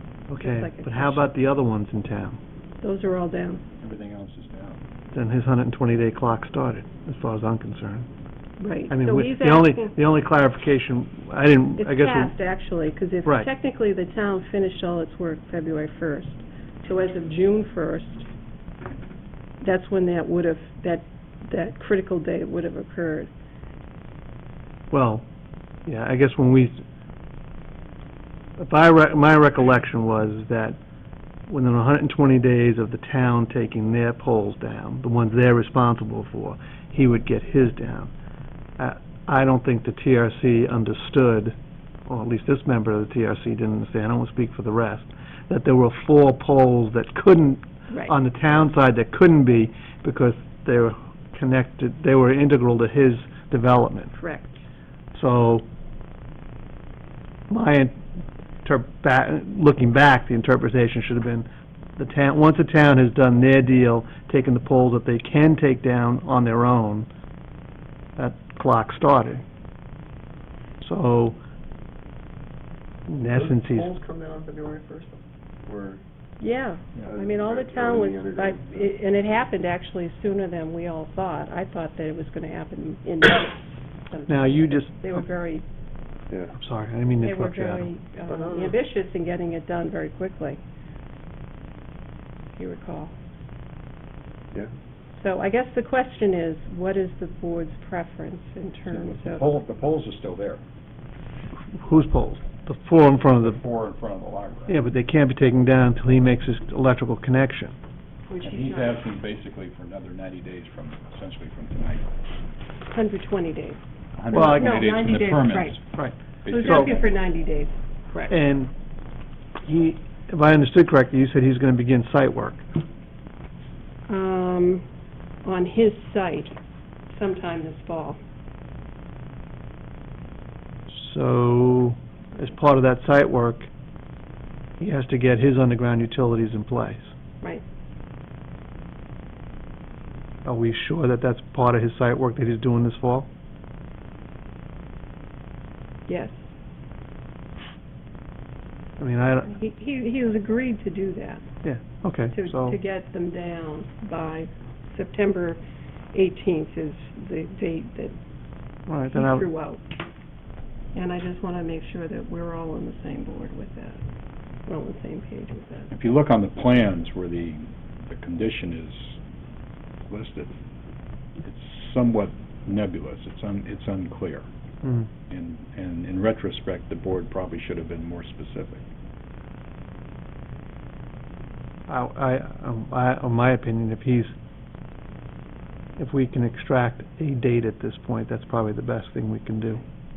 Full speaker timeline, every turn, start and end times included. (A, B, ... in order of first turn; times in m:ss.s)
0:00.3-0:02.4 A
0:00.4-0:01.3 B
0:02.8-0:03.6 B
0:03.8-0:04.8 C
0:05.1-0:08.1 A
0:08.6-0:10.0 B
0:08.9-0:12.4 A
0:11.8-0:18.3 B
0:19.6-0:23.3 B
0:24.9-0:25.3 A
0:25.9-0:26.8 A
0:28.6-0:30.8 A
0:31.5-0:38.1 A
0:38.8-0:41.6 A
0:42.1-0:54.2 A
0:54.1-0:54.6 B
0:55.1-0:55.6 A
0:57.5-0:58.0 A
0:58.6-1:01.5 A
1:02.0-1:07.1 A
1:08.2-1:09.4 A
1:10.8-1:11.4 A
1:13.1-1:14.0 A
1:13.3-1:16.0 D
1:16.4-1:25.6 B
1:17.1-1:18.9 D
1:24.3-1:25.2 A
1:26.6-1:27.9 A
1:27.2-1:30.6 B
1:28.4-1:28.8 D
1:32.6-1:33.1 B
1:35.2-1:39.5 B
1:38.9-1:40.6 C
1:41.8-1:43.6 A
1:43.3-1:44.8 C
1:44.7-1:47.8 A
1:48.3-1:49.0 B
1:48.4-1:52.0 C
1:52.9-1:53.8 B
1:54.1-1:55.8 C
1:54.3-1:55.8 B
1:54.3-1:54.8 A
1:55.9-1:56.9 A
1:56.4-1:57.2 C
1:56.4-1:58.3 B
1:58.3-1:58.7 A
1:59.6-2:02.7 A
2:04.1-2:04.8 B
2:05.4-2:06.6 B
2:07.1-2:08.2 B
2:10.9-2:13.7 A
2:14.8-2:17.1 A
2:20.4-2:23.3 A
2:26.1-2:26.4 B
2:29.0-2:29.5 A
2:29.4-2:31.4 B
2:31.6-2:32.8 A
2:32.3-2:35.6 B
2:36.1-2:38.2 B
2:38.9-2:39.5 A
2:39.1-2:39.8 B
2:40.9-2:44.0 B
2:44.7-2:45.9 B
2:45.9-2:49.2 C
2:50.1-2:50.6 C
2:51.4-2:54.5 C
2:54.8-2:55.1 A
2:55.3-2:58.8 C
3:01.9-3:04.3 A
3:06.0-3:09.8 A